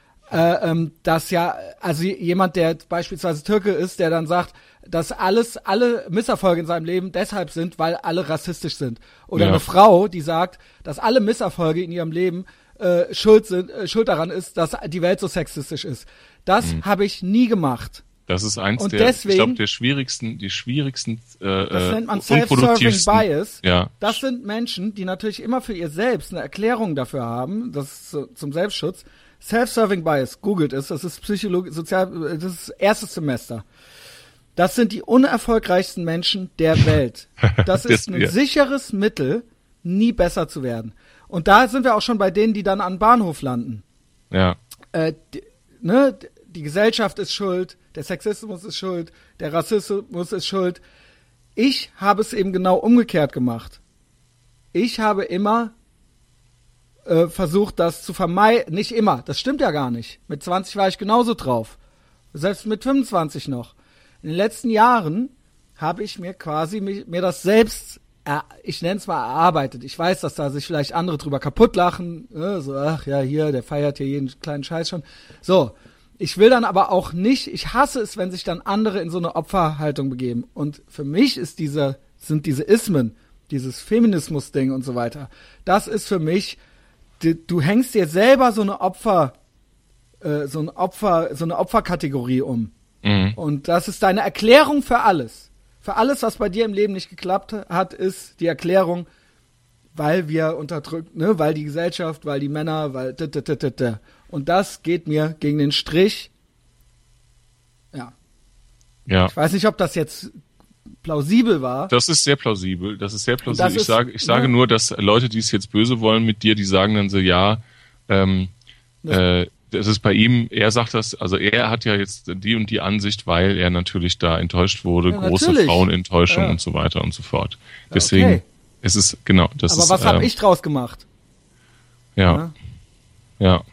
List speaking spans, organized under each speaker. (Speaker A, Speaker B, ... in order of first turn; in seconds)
Speaker A: 0.3-18.1, 18.8-19.6, 21.7-33.6, 34.5-43.8, 44.9-50.8, 51.5-53.8, 54.7-55.7, 57.0-61.8, 62.3-86.6, 87.2-89.3, 90.2-92.7, 93.3-99.1, 99.9-106.3, 109.2-110.3, 111.0-111.9, 113.5-114.5, 125.1-126.6, 127.9-128.4, 129.7-131.0, 132.3-132.5
Speaker B: 9.3-9.6, 18.3-24.2, 37.6-38.3, 44.3-44.6, 93.0-93.4, 109.1-109.3, 111.9-118.5, 119.1-130.3, 132.2-132.4